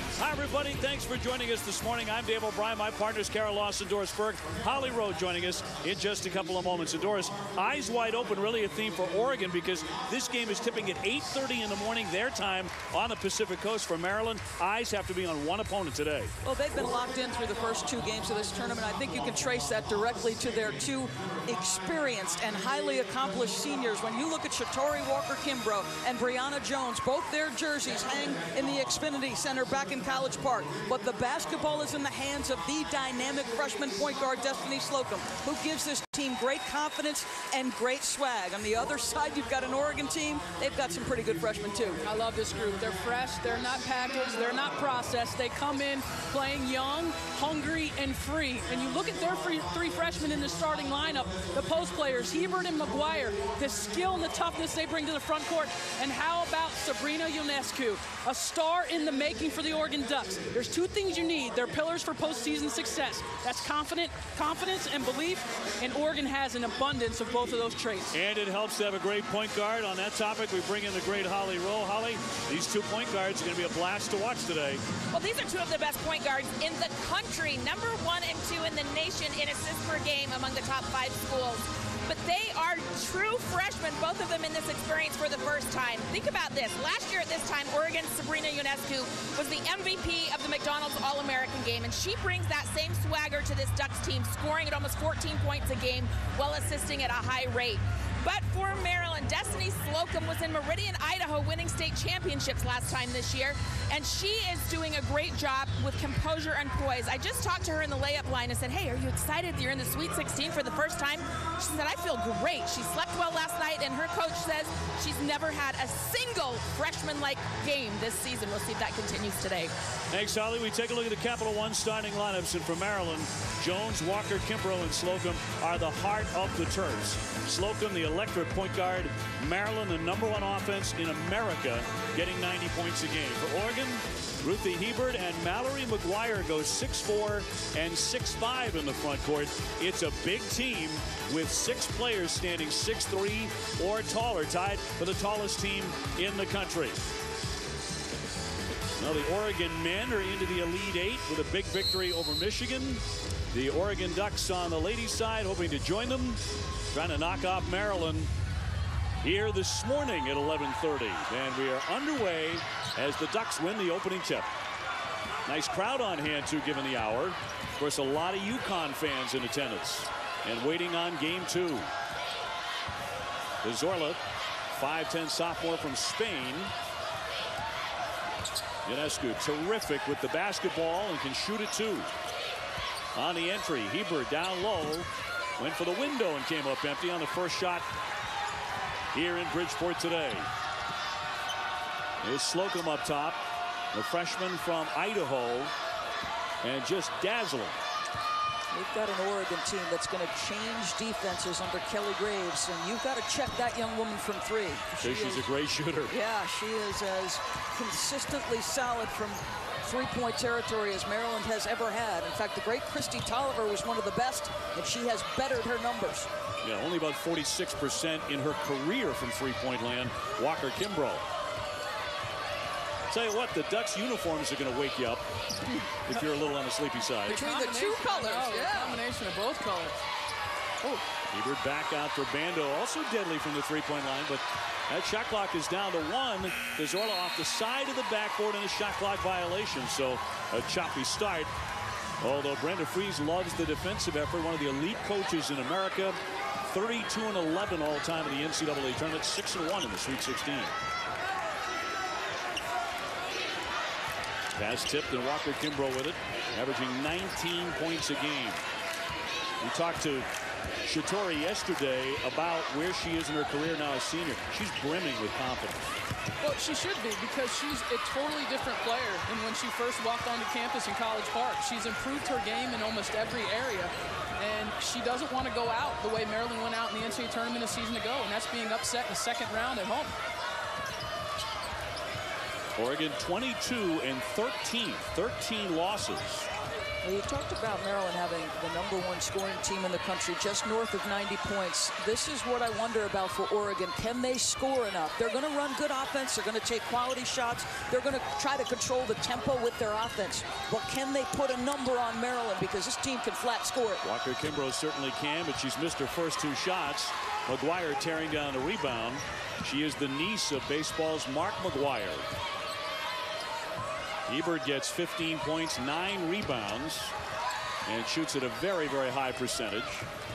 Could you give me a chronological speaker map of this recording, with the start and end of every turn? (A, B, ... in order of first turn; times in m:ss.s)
0:00.2-0:16.3 A
0:16.4-0:42.0 B
0:42.0-1:08.1 C
1:08.1-1:14.8 A
1:15.1-1:59.7 D
2:00.1-2:27.0 A
2:29.0-2:38.3 A
2:39.2-2:44.5 A
2:45.5-2:51.9 A
2:53.6-2:54.2 A
2:54.7-2:56.7 A
2:58.9-3:02.1 A
3:03.2-3:07.9 A
3:09.1-3:10.5 A
3:12.2-3:13.4 A
3:13.9-3:15.7 A
3:16.6-3:17.8 A
3:18.7-3:25.4 B
3:25.0-3:26.2 A
3:26.1-3:36.3 B
3:36.6-3:41.2 A
3:43.1-3:45.3 A
3:46.1-3:47.4 A
3:47.3-3:50.0 C
3:47.3-3:49.0 B
3:51.3-4:01.5 A
4:02.2-4:06.2 A
4:06.7-4:10.7 A
4:14.5-4:18.6 A
4:19.6-4:20.3 A
4:20.8-4:26.0 A
4:26.4-4:40.1 C
4:42.8-4:46.5 A
4:47.0-5:04.0 B
5:04.0-5:12.3 A
5:14.3-5:17.1 A
5:17.9-5:20.1 A